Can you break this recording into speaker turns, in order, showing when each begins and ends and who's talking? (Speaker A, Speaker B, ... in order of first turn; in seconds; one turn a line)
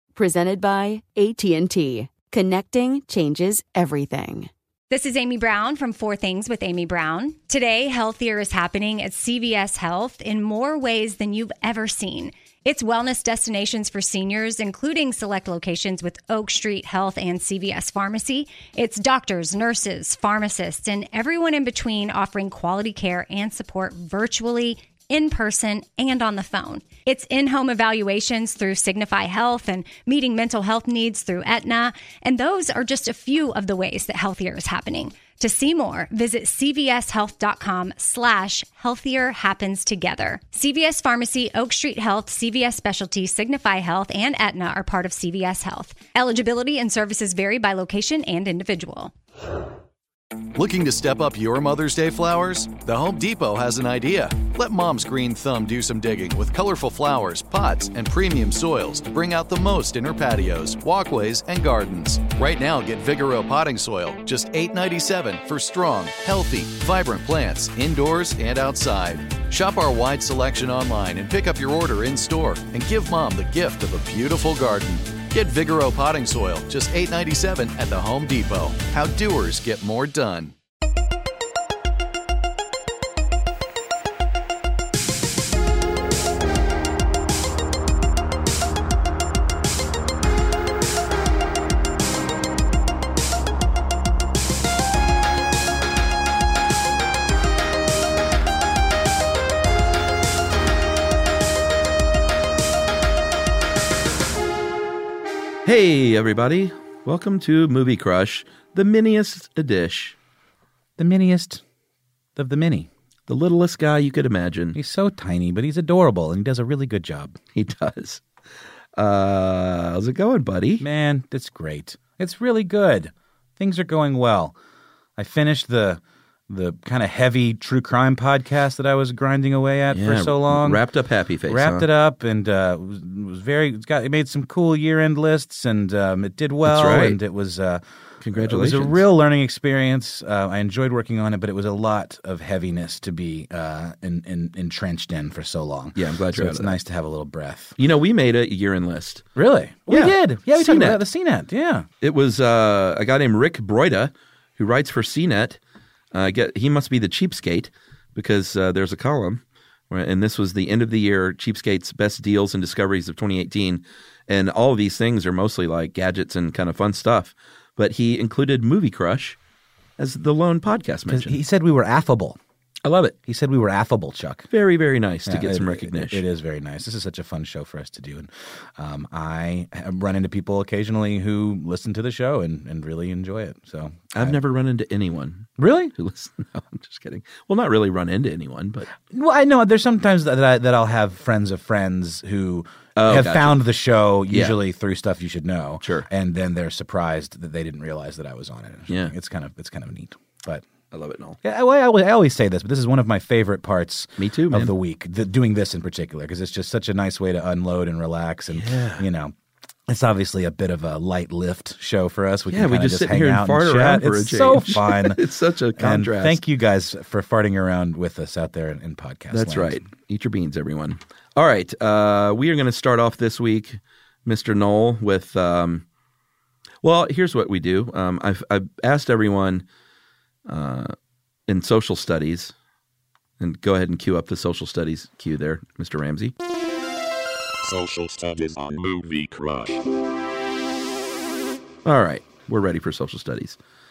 Speaker A: 0.2-4.5
Speaker B: 4.9-49.1
Speaker C: 50.5-80.5
Speaker D: 105.7-110.2
Speaker E: 111.0-111.6
Speaker E: 112.4-112.9
Speaker D: 113.3-114.8
Speaker E: 114.8-117.4
Speaker D: 117.5-118.2
Speaker D: 119.0-120.8
Speaker E: 120.8-124.6
Speaker E: 125.2-130.8
Speaker D: 129.9-131.9
Speaker E: 131.5-137.8
Speaker D: 136.7-137.2
Speaker D: 138.2-139.0
Speaker E: 138.4-147.8
Speaker D: 146.0-146.8
Speaker D: 147.8-149.2
Speaker E: 149.4-151.9
Speaker D: 149.9-151.0
Speaker D: 152.0-155.6
Speaker D: 156.1-169.4
Speaker D: 170.0-171.4
Speaker E: 171.1-172.4
Speaker D: 172.8-173.2
Speaker E: 173.2-174.5
Speaker D: 174.5-176.2
Speaker E: 175.3-184.4
Speaker D: 184.1-188.9
Speaker E: 185.6-185.9
Speaker E: 189.0-200.7
Speaker D: 193.0-193.6
Speaker D: 194.3-194.6
Speaker D: 195.8-196.1
Speaker D: 200.9-201.4
Speaker E: 201.4-209.3
Speaker D: 204.2-204.7
Speaker D: 208.5-209.1
Speaker E: 209.9-215.2
Speaker D: 212.5-216.4
Speaker E: 215.8-219.8
Speaker D: 219.3-225.8
Speaker D: 226.8-229.7
Speaker D: 230.5-230.9
Speaker D: 231.5-232.5
Speaker D: 233.4-236.3
Speaker F: 237.6-239.8
Speaker D: 241.8-243.6